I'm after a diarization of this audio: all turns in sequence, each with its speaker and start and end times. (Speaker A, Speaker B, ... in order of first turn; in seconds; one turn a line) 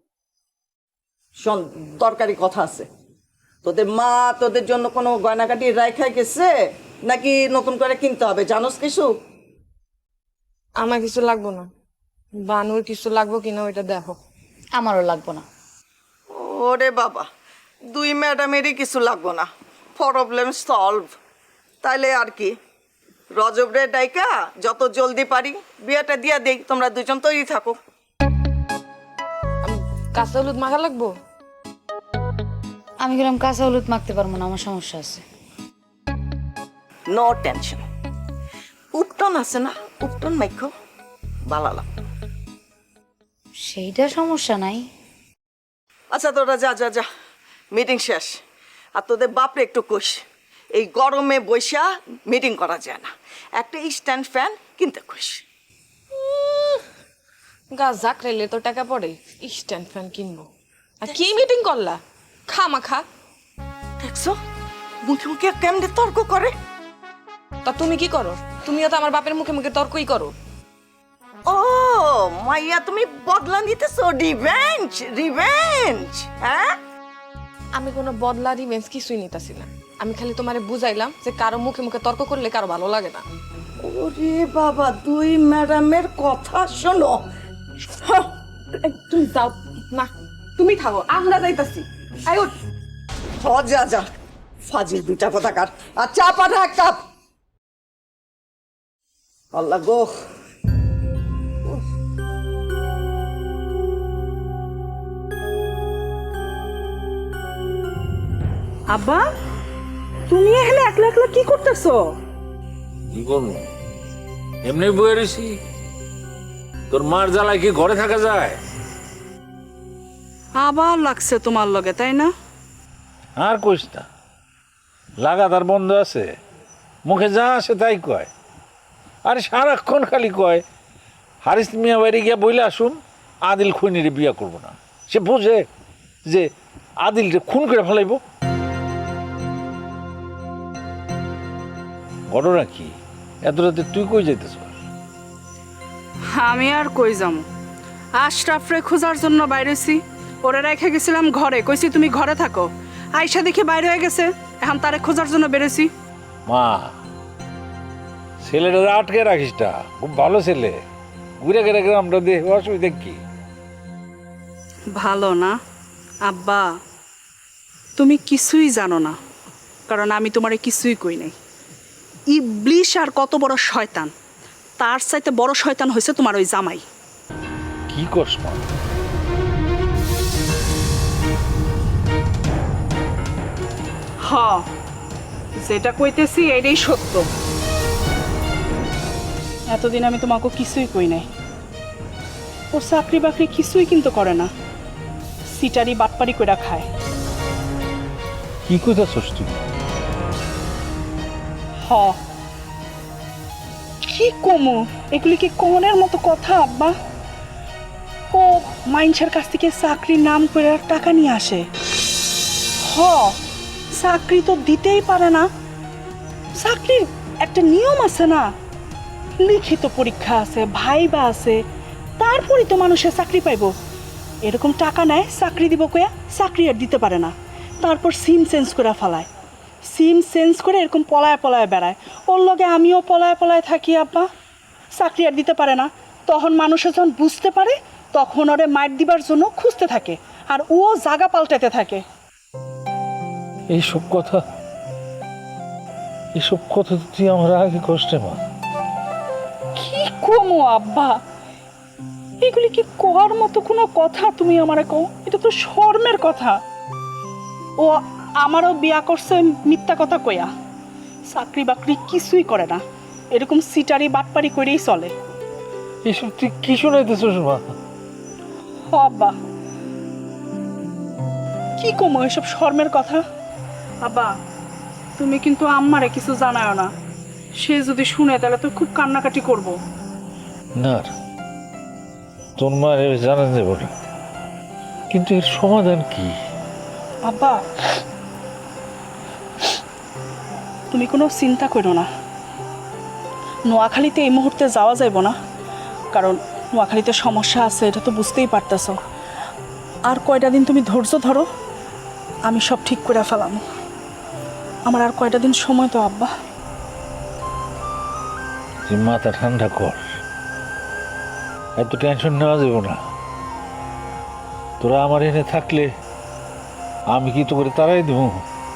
Speaker A: 1.4-2.9
Speaker A: 3.6-6.5
Speaker A: 7.1-9.1
Speaker B: 10.8-11.7
Speaker B: 12.4-14.2
Speaker C: 14.8-15.4
Speaker A: 16.3-17.3
Speaker A: 17.9-21.1
Speaker A: 21.8-22.6
Speaker A: 23.4-27.8
Speaker B: 29.6-31.1
Speaker C: 33.0-35.2
Speaker A: 37.1-37.8
Speaker A: 38.9-40.7
Speaker A: 41.5-41.9
Speaker C: 43.6-44.9
Speaker A: 46.1-47.1
Speaker A: 47.7-48.4
Speaker A: 49.0-55.5
Speaker B: 56.3-56.8
Speaker B: 57.7-60.5
Speaker B: 61.0-63.0
Speaker A: 64.0-64.4
Speaker A: 65.0-66.5
Speaker B: 67.6-70.3
Speaker A: 71.5-76.8
Speaker B: 77.7-83.2
Speaker A: 83.8-87.2
Speaker B: 88.8-92.5
Speaker A: 93.4-94.1
Speaker A: 94.7-97.0
Speaker A: 99.5-100.2
Speaker D: 108.9-109.2
Speaker D: 110.3-112.1
Speaker E: 113.1-113.6
Speaker E: 114.6-115.6
Speaker E: 116.9-118.6
Speaker D: 120.5-122.3
Speaker E: 123.4-124.0
Speaker E: 125.2-126.3
Speaker E: 127.1-128.3
Speaker E: 129.3-130.6
Speaker E: 131.4-135.7
Speaker E: 137.0-138.2
Speaker E: 142.3-144.8
Speaker D: 146.3-147.4
Speaker D: 148.2-155.9
Speaker E: 156.5-156.9
Speaker E: 158.4-160.8
Speaker E: 161.4-163.2
Speaker D: 164.9-165.6
Speaker D: 166.2-166.8
Speaker D: 168.0-169.2
Speaker D: 169.9-171.4
Speaker D: 172.3-174.1
Speaker D: 174.8-176.8
Speaker E: 177.9-178.6
Speaker D: 184.2-184.7
Speaker D: 185.6-187.3
Speaker D: 189.7-191.3
Speaker D: 192.7-194.5
Speaker D: 195.5-196.9
Speaker E: 198.7-199.6
Speaker D: 201.8-202.2
Speaker D: 204.1-206.9
Speaker D: 208.3-211.6
Speaker D: 212.8-213.4
Speaker D: 213.9-215.5
Speaker D: 216.6-218.5
Speaker D: 219.4-221.6
Speaker D: 222.2-223.7
Speaker D: 224.4-229.3
Speaker D: 229.9-234.3
Speaker D: 234.9-242.0
Speaker E: 243.7-244.4
Speaker E: 246.4-248.4
Speaker D: 249.8-251.2
Speaker D: 252.4-256.6
Speaker D: 257.8-260.5
Speaker D: 261.3-262.8
Speaker D: 263.3-265.1
Speaker E: 266.1-267.7
Speaker D: 268.9-269.4
Speaker D: 271.8-273.2
Speaker D: 274.0-274.3
Speaker D: 275.2-276.9
Speaker D: 277.6-279.8
Speaker E: 280.8-281.1
Speaker E: 282.6-283.9
Speaker E: 285.1-286.3
Speaker D: 287.3-287.6
Speaker D: 290.9-292.1
Speaker D: 293.7-295.4
Speaker D: 296.1-299.0
Speaker D: 300.1-301.5
Speaker D: 302.5-303.6
Speaker D: 304.9-306.3
Speaker E: 308.9-310.0
Speaker E: 311.8-313.0
Speaker E: 314.8-315.9
Speaker E: 317.1-318.4